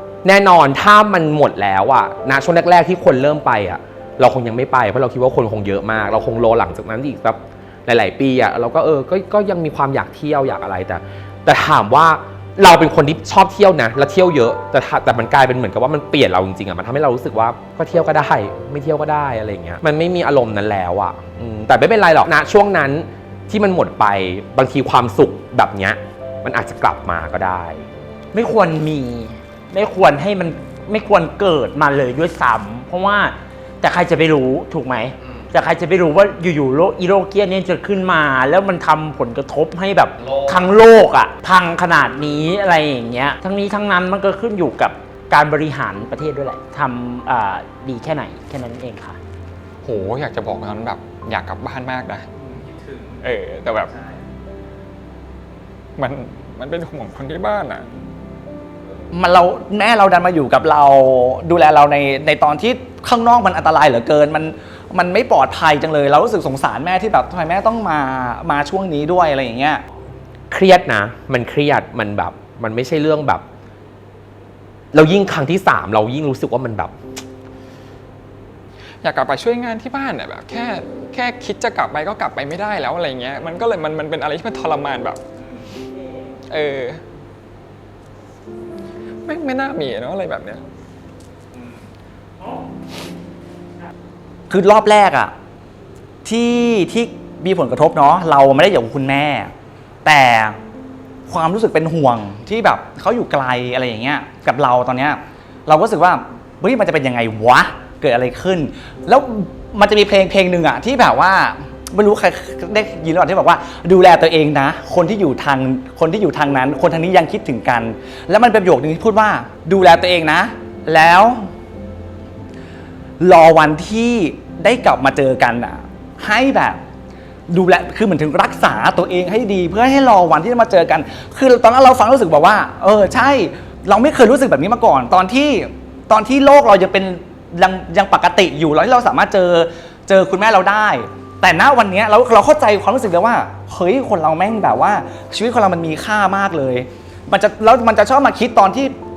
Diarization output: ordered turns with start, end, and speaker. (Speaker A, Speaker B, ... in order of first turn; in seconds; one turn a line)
Speaker A: 0.2-27.9
Speaker B: 28.3-49.2
Speaker C: 49.8-52.3
Speaker C: 52.9-53.9
Speaker C: 56.0-57.9
Speaker D: 59.1-69.8
Speaker A: 70.5-73.4
Speaker A: 74.9-76.9
Speaker C: 79.0-85.2
Speaker C: 86.5-87.0
Speaker C: 89.2-90.6
Speaker D: 94.5-95.3
Speaker D: 96.2-99.5
Speaker D: 100.0-100.6
Speaker D: 101.3-121.5
Speaker D: 123.2-126.8
Speaker D: 127.5-148.9